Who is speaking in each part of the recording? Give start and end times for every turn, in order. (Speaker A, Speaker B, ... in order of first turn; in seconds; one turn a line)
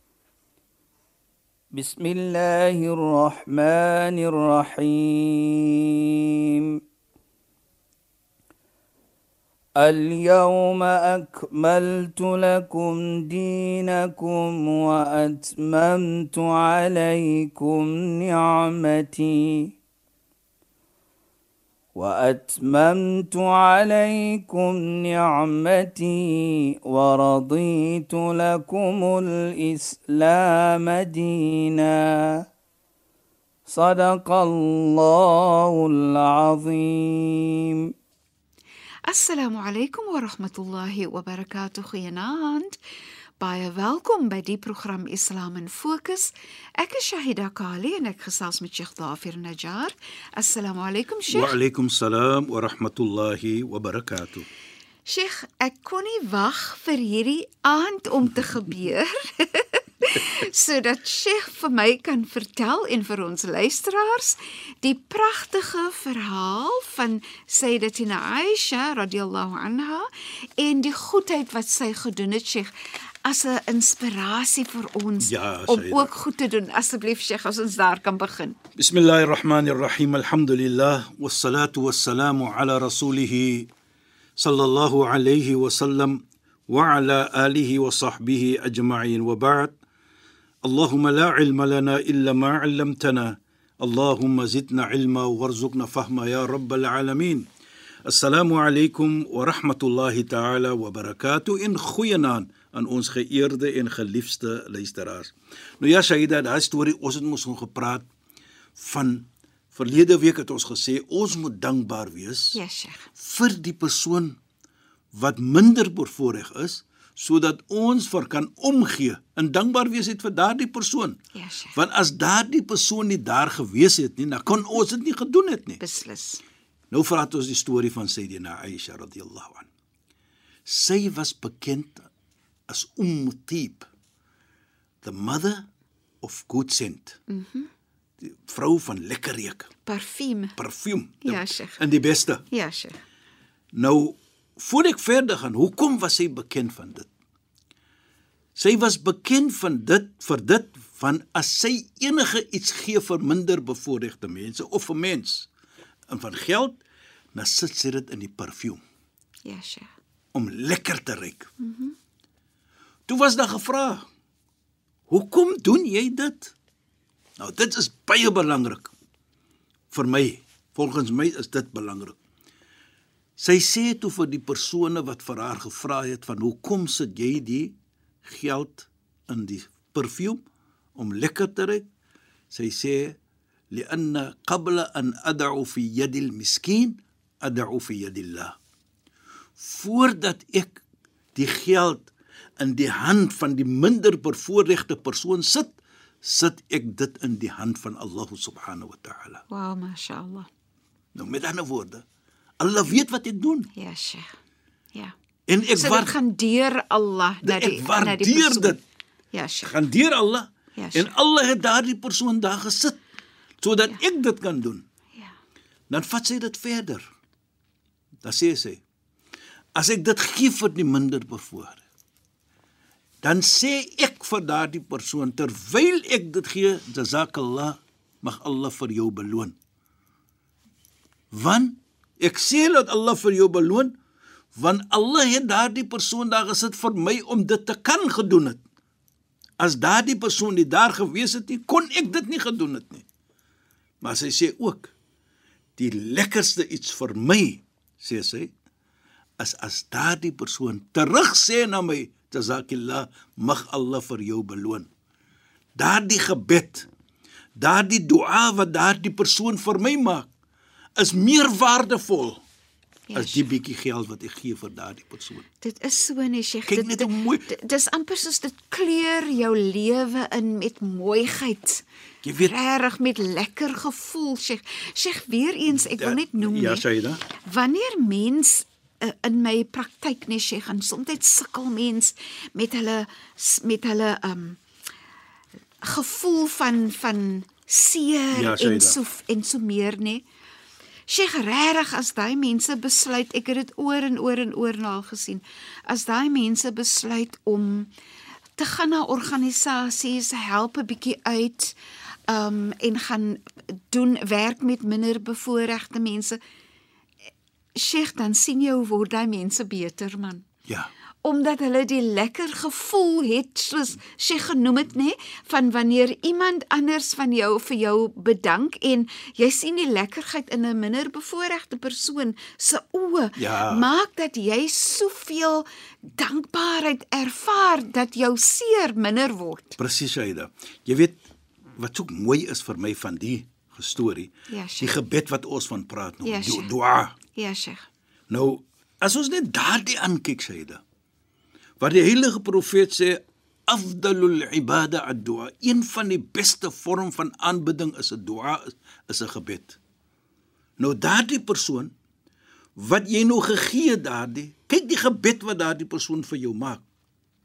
Speaker A: 1.7-6.8
Speaker A: 9.8-19.8
Speaker A: 21.9-32.4
Speaker A: 33.7-37.9
Speaker B: 39.1-42.8
Speaker B: 43.4-51.6
Speaker C: 51.3-54.5
Speaker B: 55.1-70.1
Speaker B: 70.6-72.7
Speaker B: 73.2-78.6
Speaker C: 75.2-76.1
Speaker C: 78.8-83.7
Speaker C: 84.4-89.8
Speaker C: 90.7-97.5
Speaker C: 98.1-108.1
Speaker C: 108.8-112.6
Speaker B: 112.5-113.1
Speaker C: 113.2-114.4
Speaker C: 115.1-121.2
Speaker B: 121.3-121.8
Speaker C: 121.8-125.8
Speaker B: 125.8-126.4
Speaker C: 126.9-129.7
Speaker C: 130.7-132.1
Speaker C: 132.7-133.9
Speaker C: 135.0-135.7
Speaker C: 136.2-137.2
Speaker B: 137.3-137.7
Speaker C: 138.2-139.7
Speaker B: 139.9-140.6
Speaker C: 140.6-142.4
Speaker B: 141.2-141.8
Speaker B: 142.5-143.0
Speaker C: 143.7-147.1
Speaker C: 148.6-155.5
Speaker C: 156.1-156.8
Speaker C: 157.3-158.8
Speaker B: 159.4-159.9
Speaker C: 160.3-161.5
Speaker B: 161.6-161.9
Speaker C: 163.1-164.1
Speaker C: 165.1-166.5
Speaker C: 167.4-168.9
Speaker C: 169.9-172.2
Speaker C: 173.4-180.4
Speaker C: 181.0-181.8
Speaker C: 182.5-183.2
Speaker C: 183.7-188.6
Speaker C: 189.6-190.8
Speaker C: 191.3-199.4
Speaker B: 199.5-200.5
Speaker C: 201.2-202.1
Speaker C: 202.6-203.7
Speaker B: 203.8-204.3
Speaker C: 205.5-206.2
Speaker B: 205.8-208.8
Speaker C: 207.4-208.8
Speaker B: 209.3-209.8
Speaker C: 209.6-213.0
Speaker B: 210.8-211.1
Speaker C: 213.6-214.8
Speaker C: 215.9-217.1
Speaker C: 218.2-218.8
Speaker C: 219.8-221.8
Speaker C: 223.2-229.6
Speaker C: 231.3-233.9
Speaker C: 234.6-238.6
Speaker C: 239.6-243.1
Speaker C: 244.0-244.9
Speaker C: 245.8-248.5
Speaker C: 249.4-254.9
Speaker C: 255.8-256.9
Speaker C: 257.6-260.3
Speaker C: 261.0-262.4
Speaker B: 263.1-263.5
Speaker C: 263.1-265.4
Speaker B: 265.6-271.8
Speaker C: 266.7-267.5
Speaker C: 272.2-272.5
Speaker B: 272.4-284.6
Speaker C: 276.0-277.2
Speaker B: 285.8-290.2
Speaker C: 288.3-289.0
Speaker B: 291.1-297.9
Speaker B: 298.6-301.8
Speaker B: 302.3-306.4
Speaker B: 307.8-310.4
Speaker C: 310.7-310.9
Speaker B: 311.2-329.8
Speaker C: 323.4-323.9
Speaker C: 329.8-331.2
Speaker C: 331.8-337.2
Speaker B: 334.5-335.0
Speaker B: 336.2-336.7
Speaker B: 337.4-337.9
Speaker C: 338.3-340.8
Speaker C: 341.8-349.8
Speaker C: 350.8-351.9
Speaker C: 352.8-356.8